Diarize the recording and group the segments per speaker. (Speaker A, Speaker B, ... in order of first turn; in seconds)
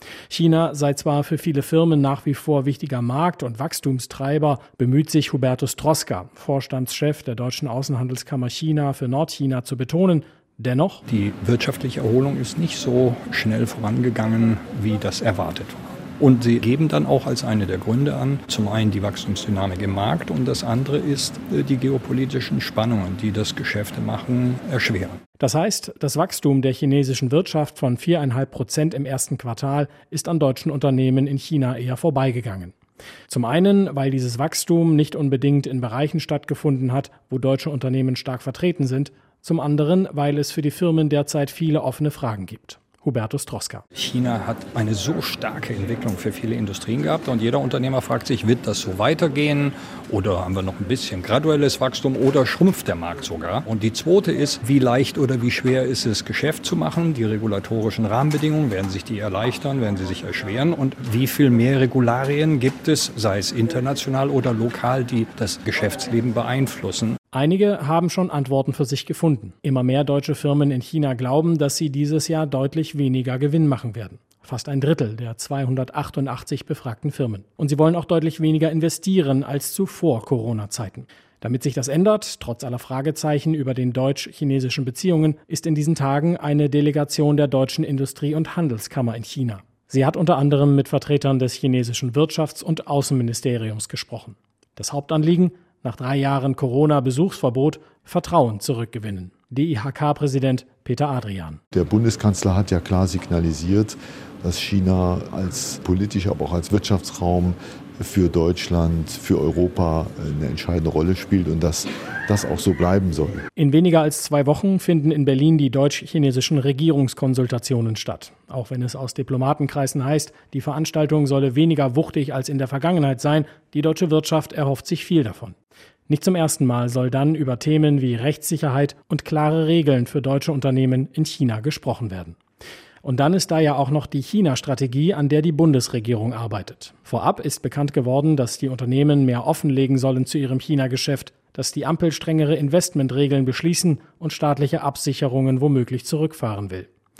Speaker A: 0.3-11.0, 25.4-32.8, 33.3-43.8, 67.3-101.6, 113.6-125.6, 126.1-132.4, 133.0-146.9
Speaker B: 11.1-25.2, 44.0-67.2
Speaker C: 101.7-113.5